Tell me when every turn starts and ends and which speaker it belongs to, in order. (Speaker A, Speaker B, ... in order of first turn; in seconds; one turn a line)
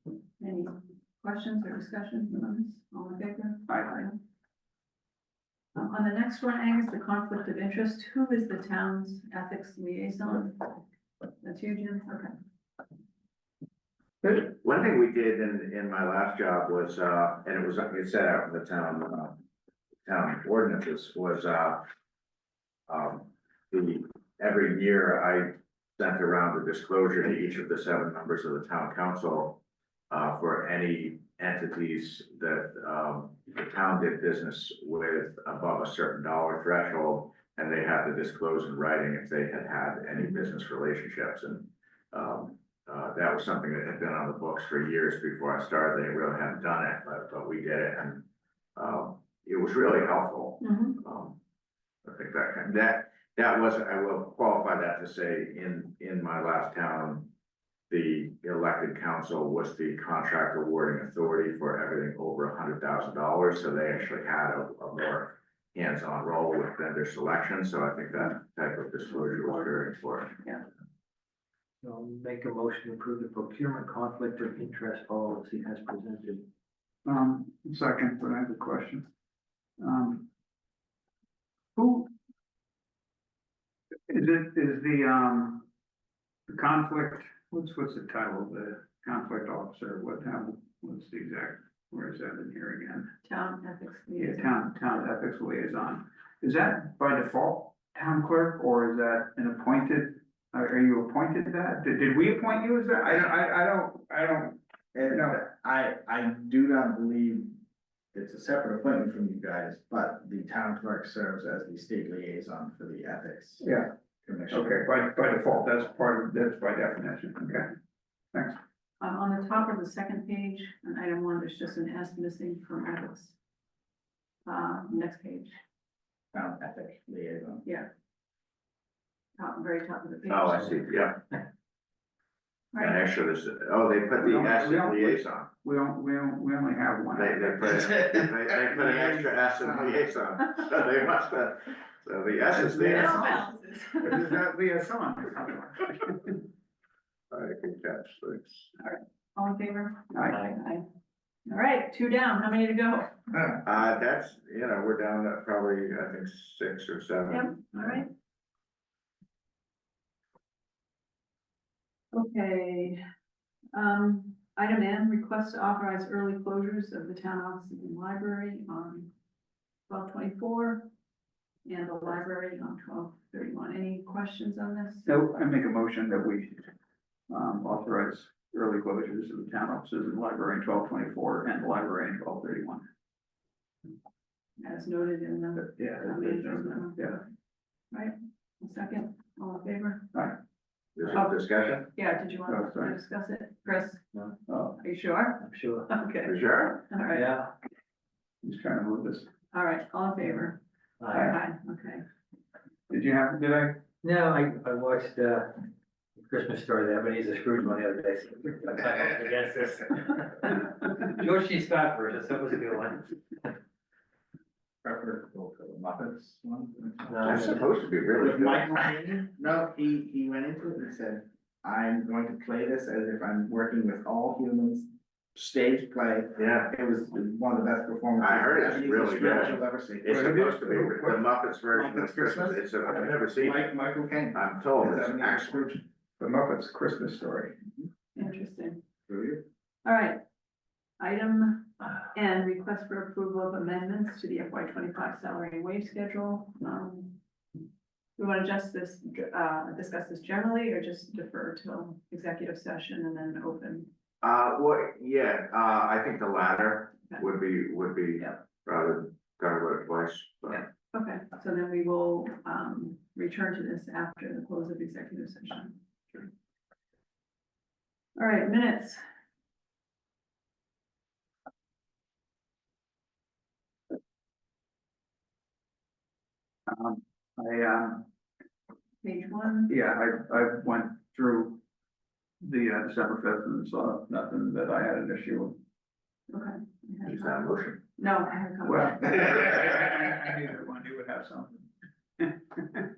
Speaker A: 0.4-4.2
Speaker A: 5.8-10.8
Speaker A: 11.4-12.3
Speaker B: 14.2-19.4
Speaker B: 20.1-21.9
Speaker B: 22.9-29.6
Speaker B: 30.1-48.2
Speaker B: 48.8-51.4
Speaker A: 50.6-51.0
Speaker B: 52.0-57.3
Speaker B: 57.9-70.4
Speaker A: 69.1-70.6
Speaker C: 71.8-76.5
Speaker D: 77.0-79.1
Speaker D: 79.8-80.3
Speaker D: 81.8-82.1
Speaker D: 84.1-85.7
Speaker D: 86.5-93.1
Speaker A: 93.2-94.6
Speaker D: 94.2-105.4
Speaker E: 104.9-107.5
Speaker E: 108.1-113.7
Speaker D: 113.6-113.9
Speaker E: 114.2-114.9
Speaker D: 114.5-117.7
Speaker D: 118.3-118.6
Speaker A: 119.0-123.4
Speaker A: 124.5-125.5
Speaker E: 126.3-127.6
Speaker A: 129.4-131.2
Speaker B: 130.3-131.2
Speaker A: 132.7-133.0
Speaker B: 132.8-135.5
Speaker D: 134.2-137.9
Speaker B: 137.1-143.4
Speaker E: 138.0-140.0
Speaker D: 142.5-143.5
Speaker A: 142.9-144.4
Speaker D: 144.0-146.3
Speaker B: 147.3-148.7
Speaker A: 148.8-150.8
Speaker D: 150.1-150.4
Speaker C: 150.3-150.6
Speaker A: 151.5-153.2
Speaker B: 153.6-158.0
Speaker A: 157.3-158.1
Speaker A: 162.1-163.0
Speaker A: 163.8-169.1
Speaker A: 169.9-170.9
Speaker A: 171.7-175.1
Speaker D: 175.1-176.7
Speaker D: 177.3-182.9
Speaker A: 184.6-187.2
Speaker D: 185.6-187.2
Speaker A: 187.9-190.1
Speaker B: 191.0-191.9
Speaker A: 191.1-197.3
Speaker D: 192.5-193.0
Speaker D: 194.5-194.8
Speaker C: 195.4-195.9
Speaker B: 196.2-196.8
Speaker C: 197.1-197.5
Speaker D: 198.4-199.3
Speaker A: 199.5-200.6
Speaker C: 201.0-201.3
Speaker A: 201.1-202.1
Speaker D: 202.9-203.8
Speaker C: 204.0-205.6
Speaker C: 206.2-213.2
Speaker E: 214.8-217.6
Speaker C: 217.1-217.6
Speaker B: 217.2-218.9
Speaker E: 218.2-230.4
Speaker B: 226.4-226.7
Speaker B: 228.2-233.7
Speaker D: 230.1-231.2
Speaker D: 231.8-232.6
Speaker E: 232.9-235.8
Speaker B: 234.3-235.7
Speaker D: 236.2-237.6
Speaker A: 238.2-238.8
Speaker E: 239.1-239.4
Speaker A: 239.8-240.2
Speaker A: 241.0-247.2
Speaker A: 248.2-253.9
Speaker B: 254.2-260.7
Speaker A: 260.8-266.3
Speaker A: 268.2-269.0
Speaker D: 276.7-278.1
Speaker A: 279.0-279.7
Speaker D: 279.7-281.6
Speaker D: 282.4-285.6
Speaker A: 286.3-287.4
Speaker B: 287.1-287.8
Speaker A: 288.0-289.2
Speaker D: 288.6-291.7
Speaker D: 292.2-292.9